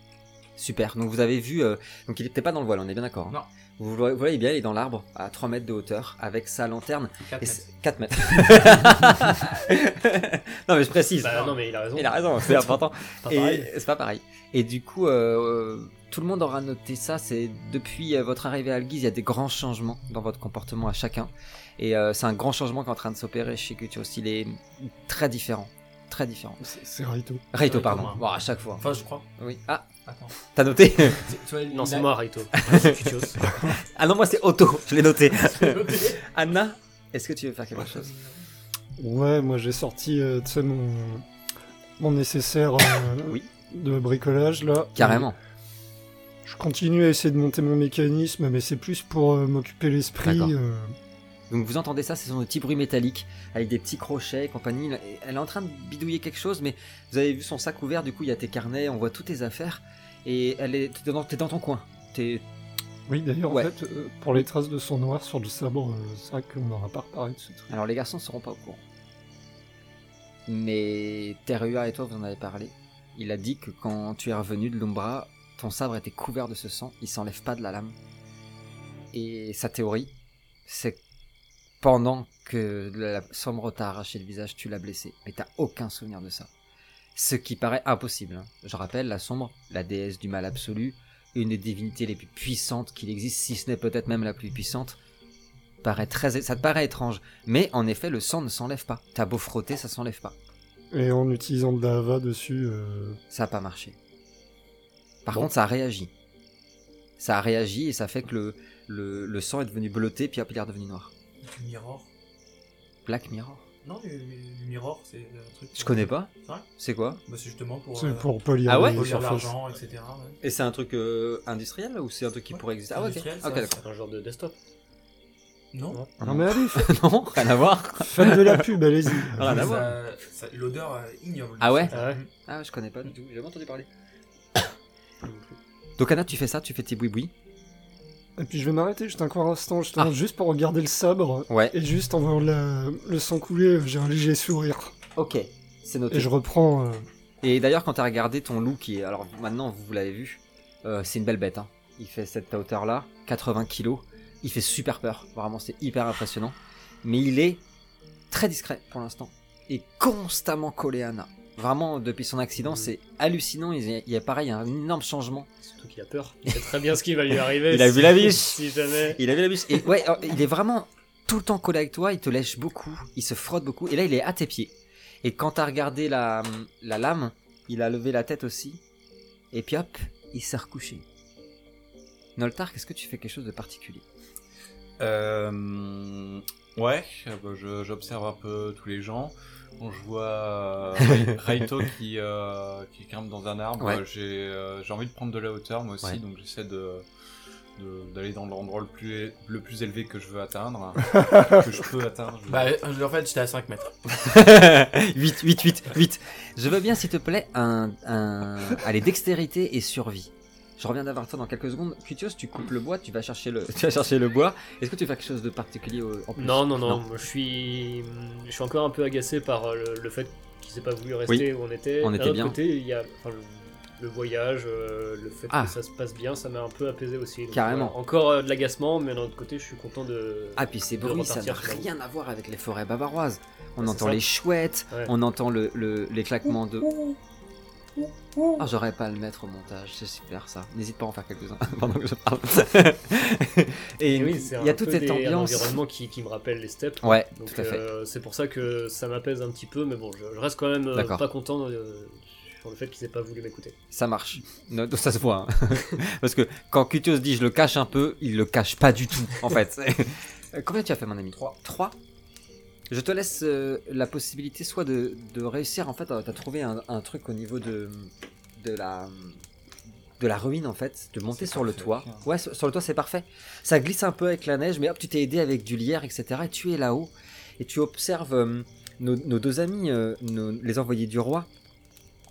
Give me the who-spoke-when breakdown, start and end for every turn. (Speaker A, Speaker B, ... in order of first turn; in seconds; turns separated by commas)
Speaker A: 0.6-26.6, Speaker B: 7.3-7.6, Speaker C: 11.2-13.7, Speaker B: 11.2-11.6, Speaker D: 26.6-27.4, Speaker A: 27.5-28.9, Speaker B: 27.6-28.2, Speaker B: 28.8-29.3, Speaker A: 29.4-29.9, Speaker B: 30.1-30.4, Speaker A: 30.5-31.2, Speaker B: 31.1-32.1, Speaker C: 31.7-33.4, Speaker A: 32.6-38.1, Speaker B: 35.4-36.2, Speaker B: 37.8-38.4, Speaker D: 39.0-41.3, Speaker D: 42.0-45.3, Speaker A: 45.0-45.4, Speaker D: 46.5-50.9, Speaker A: 50.2-50.5, Speaker A: 51.5-62.4, Speaker D: 63.1-67.7, Speaker A: 67.7-68.8, Speaker A: 70.5-78.0, Speaker A: 79.1-80.1, Speaker A: 80.7-81.0, Speaker A: 81.8-86.5, Speaker A: 87.2-95.0, Speaker A: 95.8-100.3, Speaker D: 100.9-103.2, Speaker A: 103.3-104.0, Speaker A: 105.2-106.1, Speaker A: 107.2-111.1, Speaker B: 111.5-112.1, Speaker A: 113.1-113.6, Speaker B: 113.8-116.7, Speaker A: 115.8-117.2, Speaker B: 117.2-120.4, Speaker D: 118.0-119.5, Speaker A: 118.7-119.1, Speaker A: 120.4-123.8, Speaker B: 122.5-123.8, Speaker C: 123.8-124.6, Speaker B: 125.7-126.0, Speaker A: 126.2-128.7, Speaker D: 126.2-127.0, Speaker D: 128.0-129.8, Speaker A: 129.2-129.9, Speaker B: 129.4-132.3, Speaker A: 131.6-131.9, Speaker C: 131.9-132.2, Speaker A: 132.5-133.9, Speaker C: 135.2-135.6, Speaker A: 136.0-137.3, Speaker D: 138.4-144.9, Speaker A: 141.5-141.8, Speaker A: 145.2-146.3, Speaker D: 146.1-147.1, Speaker A: 147.4-157.6, Speaker A: 158.3-165.5, Speaker C: 165.6-169.2, Speaker A: 167.7-168.6, Speaker A: 169.2-174.7, Speaker A: 175.2-178.8, Speaker A: 179.5-181.0, Speaker A: 182.4-184.1, Speaker E: 185.0-197.1, Speaker A: 191.1-191.3, Speaker E: 197.8-202.8, Speaker B: 202.5-204.0, Speaker A: 204.2-217.0, Speaker C: 216.4-231.9, Speaker A: 222.0-222.6, Speaker A: 225.5-225.8, Speaker A: 227.5-227.9, Speaker A: 230.6-236.9, Speaker C: 233.8-234.2, Speaker A: 238.6-245.8, Speaker C: 244.1-253.8, Speaker A: 247.0-247.8, Speaker A: 250.9-251.2, Speaker A: 253.9-262.0, Speaker A: 262.9-269.4, Speaker A: 270.2-281.5, Speaker E: 271.3-272.3